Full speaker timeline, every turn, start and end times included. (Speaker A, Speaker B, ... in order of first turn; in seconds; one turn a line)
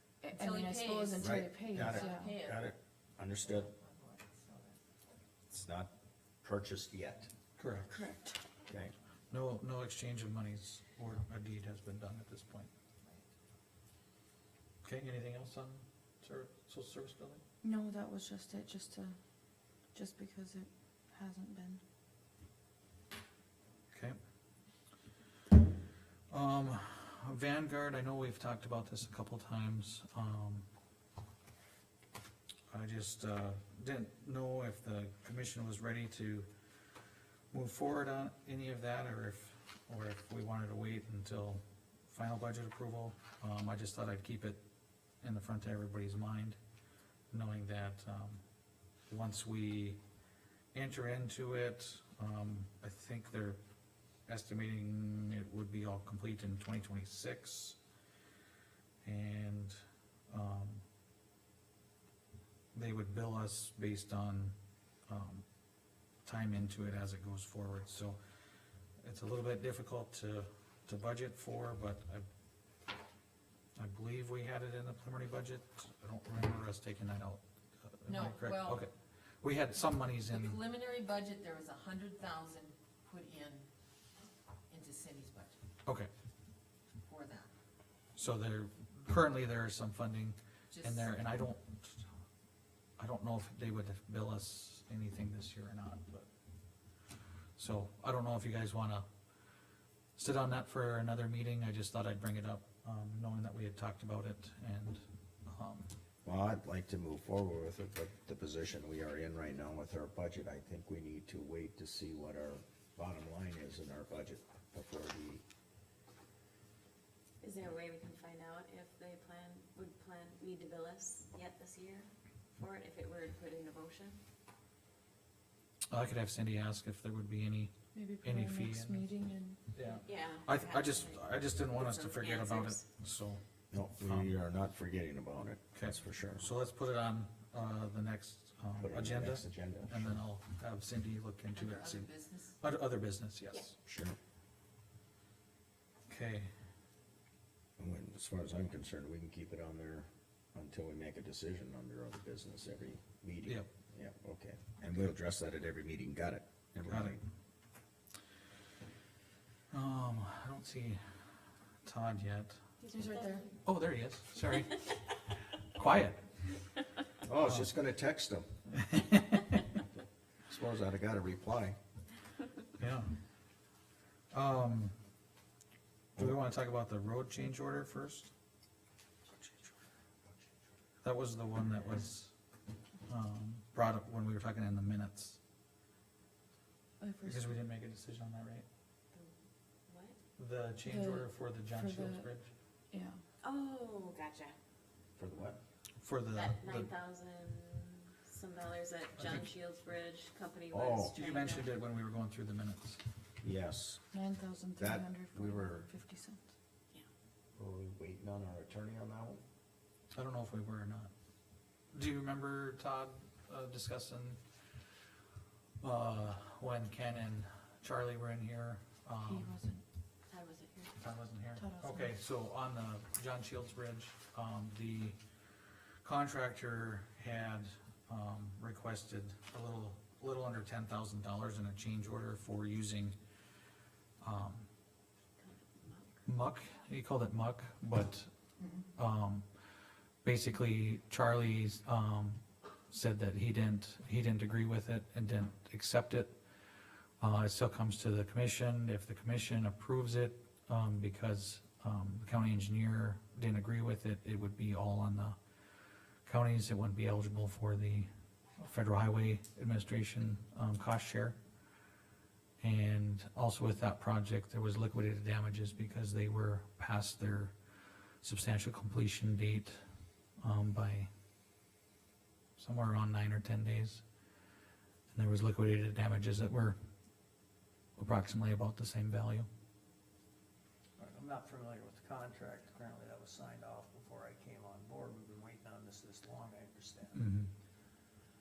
Speaker A: 0.2-2.4
Speaker B: 0.3-2.7
Speaker C: 1.2-3.7
Speaker B: 3.4-4.8
Speaker C: 5.5-5.9
Speaker C: 6.4-7.3
Speaker D: 7.6-8.0
Speaker A: 7.9-8.4
Speaker C: 8.7-8.9
Speaker D: 9.3-12.7
Speaker D: 14.8-17.4
Speaker A: 17.6-19.2
Speaker A: 19.9-21.8
Speaker D: 23.9-24.2
Speaker D: 26.3-30.6
Speaker D: 32.7-36.5
Speaker D: 37.5-44.6
Speaker D: 45.2-46.6
Speaker D: 47.3-48.4
Speaker D: 49.1-50.0
Speaker D: 50.7-53.6
Speaker D: 54.3-57.8
Speaker D: 59.0-59.8
Speaker D: 60.3-60.8
Speaker D: 62.7-64.5
Speaker D: 65.1-65.4
Speaker D: 66.2-68.2
Speaker D: 69.0-72.2
Speaker D: 73.8-80.6
Speaker B: 78.1-78.8
Speaker B: 80.1-83.7
Speaker B: 84.7-85.5
Speaker D: 85.8-86.1
Speaker B: 87.0-87.5
Speaker D: 88.2-92.0
Speaker B: 90.7-91.2
Speaker D: 93.0-96.3
Speaker D: 97.5-99.1
Speaker D: 100.2-105.9
Speaker C: 106.2-115.4
Speaker E: 117.4-124.2
Speaker D: 125.9-129.1
Speaker A: 127.9-129.6
Speaker D: 129.7-134.3
Speaker E: 130.0-132.8
Speaker C: 133.7-136.4
Speaker D: 135.7-143.8
Speaker C: 138.8-140.2
Speaker B: 141.5-142.6
Speaker C: 143.8-144.2
Speaker D: 146.1-146.5
Speaker C: 147.8-157.2
Speaker D: 156.8-157.2
Speaker D: 159.7-161.3
Speaker D: 161.8-162.6
Speaker E: 162.8-163.5
Speaker A: 162.8-163.4
Speaker D: 163.6-166.3
Speaker C: 167.2-168.5
Speaker D: 167.4-167.7
Speaker D: 168.7-169.7
Speaker C: 170.5-171.8
Speaker D: 172.8-173.1
Speaker D: 174.3-174.9
Speaker D: 176.2-178.3
Speaker D: 181.0-182.3
Speaker D: 183.1-185.4
Speaker A: 187.0-187.6
Speaker D: 187.2-188.7
Speaker E: 189.9-190.2
Speaker D: 190.4-192.5
Speaker A: 190.8-192.3
Speaker A: 192.9-193.2
Speaker E: 193.4-194.5
Speaker C: 195.2-195.6
Speaker D: 196.0-196.9
Speaker E: 196.3-201.7
Speaker D: 199.2-199.4
Speaker C: 200.7-201.1
Speaker D: 201.2-203.0
Speaker C: 203.4-204.0
Speaker A: 204.1-206.5
Speaker C: 204.8-205.9
Speaker C: 207.6-209.4
Speaker D: 210.1-211.1
Speaker D: 211.9-214.4
Speaker D: 215.8-219.5
Speaker A: 219.2-219.8
Speaker E: 220.3-220.9
Speaker D: 221.0-225.2
Speaker A: 221.5-222.1
Speaker D: 226.0-233.2
Speaker D: 234.2-234.7
Speaker E: 235.4-236.1
Speaker D: 236.2-238.3
Speaker D: 238.9-239.4
Speaker D: 240.2-246.4
Speaker D: 247.2-255.4
Speaker D: 256.2-261.4
Speaker D: 262.6-267.5
Speaker D: 268.2-269.8
Speaker D: 270.4-271.1
Speaker D: 272.6-274.0
Speaker D: 275.1-276.8
Speaker D: 278.0-279.5
Speaker F: 281.0-287.2
Speaker D: 287.1-287.5